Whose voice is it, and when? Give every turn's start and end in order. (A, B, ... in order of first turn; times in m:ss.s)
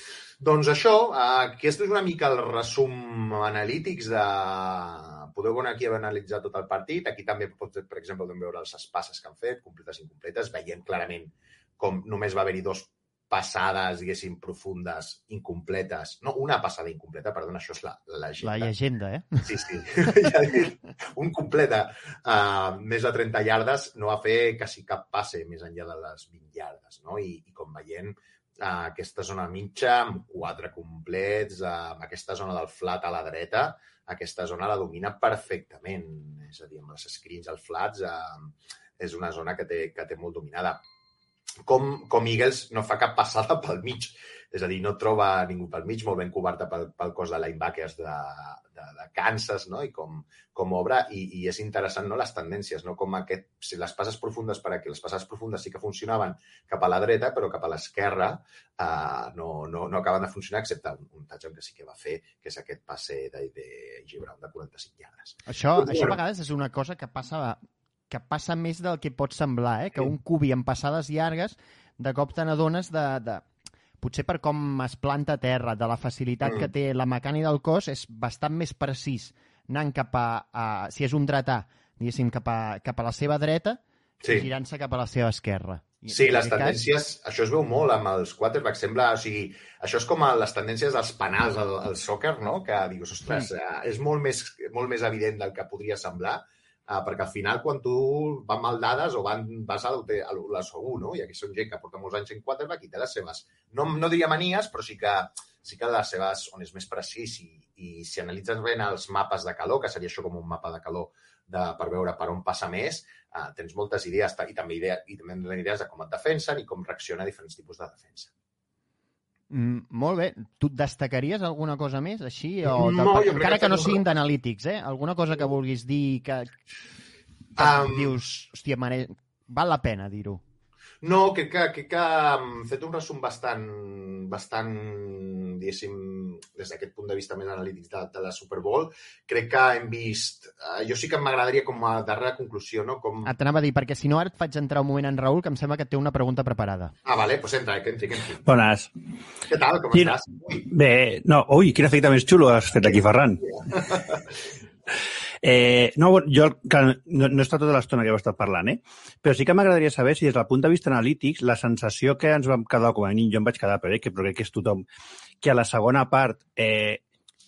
0:00.4-0:18.7 A
0:18.4-0:19.5 B
0:19.4-0:40.8 A
0:41.6-1:06.2 A
1:05.5-1:13.4 B
1:14.0-1:26.8 B
1:16.4-1:16.7 A
1:24.2-1:24.5 A
1:26.1-1:58.3 A
1:59.5-2:06.6 B
2:02.6-2:04.1 A
2:07.6-2:08.2 A
2:07.6-2:10.4 B
2:11.0-2:23.3 A
2:23.2-2:26.9 B
2:27.0-2:28.4 A
2:28.4-2:28.9 C
2:29.5-2:30.6 A
2:29.9-2:33.5 C
2:32.9-2:34.3 A
2:35.4-2:44.8 C
2:45.4-2:47.0 C